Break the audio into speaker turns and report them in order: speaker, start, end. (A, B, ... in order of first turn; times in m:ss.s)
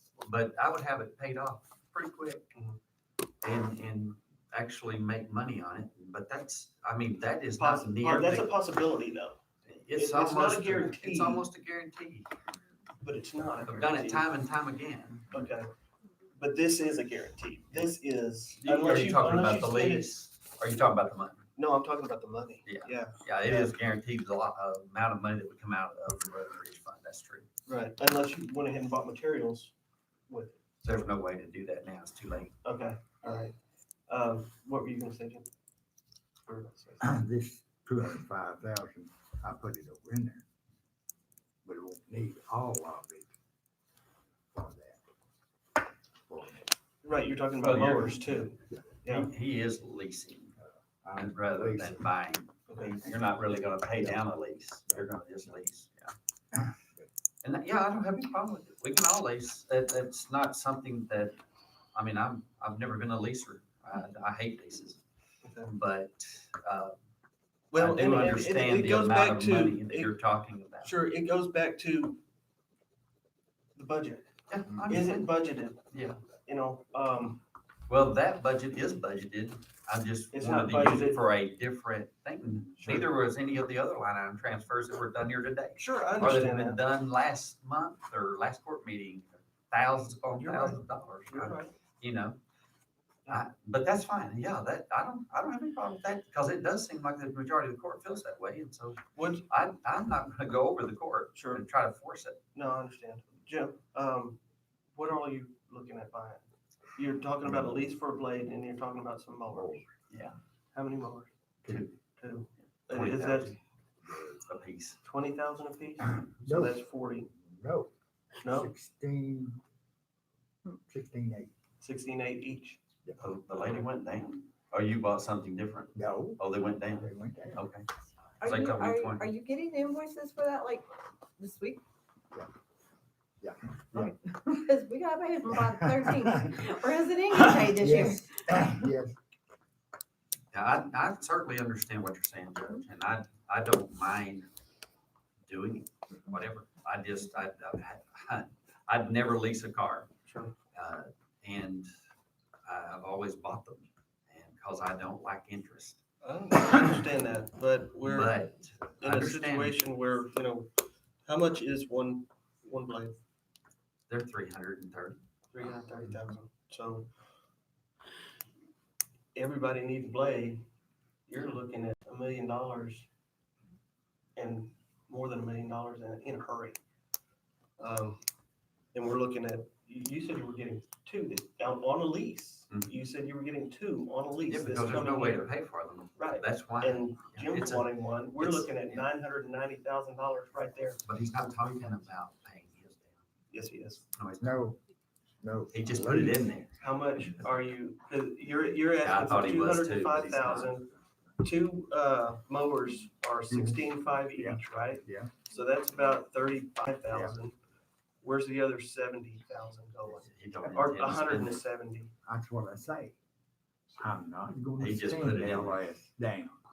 0:00.2-0:02.4 A
0:03.4-0:08.5 A
0:07.6-0:09.4 B
0:09.7-0:12.3 A
0:09.9-0:11.4 B
0:13.0-0:14.3 B
0:13.6-0:15.5 A
0:15.3-0:15.7 B
0:16.4-0:20.1 B
0:18.6-0:21.4 A
0:21.6-0:23.7 B
0:22.6-0:27.4 A
0:27.6-0:29.7 B
0:30.3-0:31.1 B
0:30.8-0:32.5 A
0:32.6-0:33.5 B
0:34.1-0:35.5 B
0:36.5-0:37.2 B
0:37.0-0:40.4 C
0:41.6-0:43.3 C
0:44.5-0:45.0 C
0:46.3-0:46.7 C
0:47.0-0:49.3 B
0:47.6-0:48.4 A
0:49.1-0:50.5 A
0:51.0-0:52.0 C
0:51.1-0:56.1 A
0:52.7-0:53.0 B
0:56.5-0:57.0 C
0:57.4-1:01.4 A
1:01.9-1:05.0 A
1:05.4-1:05.7 B
1:05.7-1:07.0 A
1:07.7-1:10.1 B
1:07.8-1:10.9 A
1:10.8-1:12.2 B
1:13.8-1:14.3 B
1:14.5-1:15.3 A
1:14.8-1:17.4 B
1:15.9-1:16.2 A
1:17.9-1:32.4 A
1:20.3-1:21.2 B
1:22.8-1:23.1 B
1:25.8-1:26.8 B
1:30.4-1:31.7 B
1:33.3-1:42.4 A
1:39.1-1:39.4 B
1:41.3-1:41.6 B
1:42.5-1:44.4 B
1:44.9-1:49.9 B
1:50.1-1:50.4 A
1:50.7-1:51.3 B
1:51.6-1:52.0 A
1:52.2-1:53.5 B
1:52.9-1:53.6 A
1:54.1-1:55.0 A
1:55.0-1:57.3 B
1:56.4-1:56.8 C
1:57.3-1:57.9 C
1:58.4-1:58.7 B
1:58.4-1:59.6 C
2:00.7-2:01.5 C
2:01.8-2:02.8 B
2:03.2-2:07.9 A
2:05.9-2:06.4 C
2:06.9-2:07.6 C
2:08.4-2:09.2 A
2:08.4-2:11.8 D
2:13.4-2:14.1 C
2:13.9-2:18.7 D
2:15.6-2:16.7 C
2:17.3-2:19.2 C
2:20.5-2:24.5 A
2:25.5-2:30.1 A
2:30.3-2:30.5 B
2:30.7-2:31.9 A
2:32.7-2:36.0 A
2:36.2-2:38.3 B
2:38.0-2:39.8 A
2:39.0-2:40.7 B
2:41.2-2:43.2 B
2:44.1-2:45.2 A
2:45.5-2:47.1 B
2:49.3-2:50.6 B
2:51.3-2:53.1 B
2:54.4-2:56.8 B
2:57.8-2:58.2 B
2:58.9-3:05.5 B
3:04.5-3:09.1 A
3:06.2-3:11.0 B
3:11.0-3:13.3 A
3:13.5-3:14.0 B
3:14.1-3:14.6 A
3:14.4-3:14.8 C
3:15.4-3:16.4 C
3:15.7-3:16.8 A
3:16.8-3:20.9 B
3:19.0-3:20.7 A
3:21.4-3:27.5 B
3:23.5-3:23.8 C
3:24.3-3:25.3 C
3:27.1-3:27.4 C
3:28.2-3:32.1 B
3:30.2-3:31.6 A
3:32.2-3:33.2 C
3:34.0-3:36.6 C
3:34.8-3:35.8 A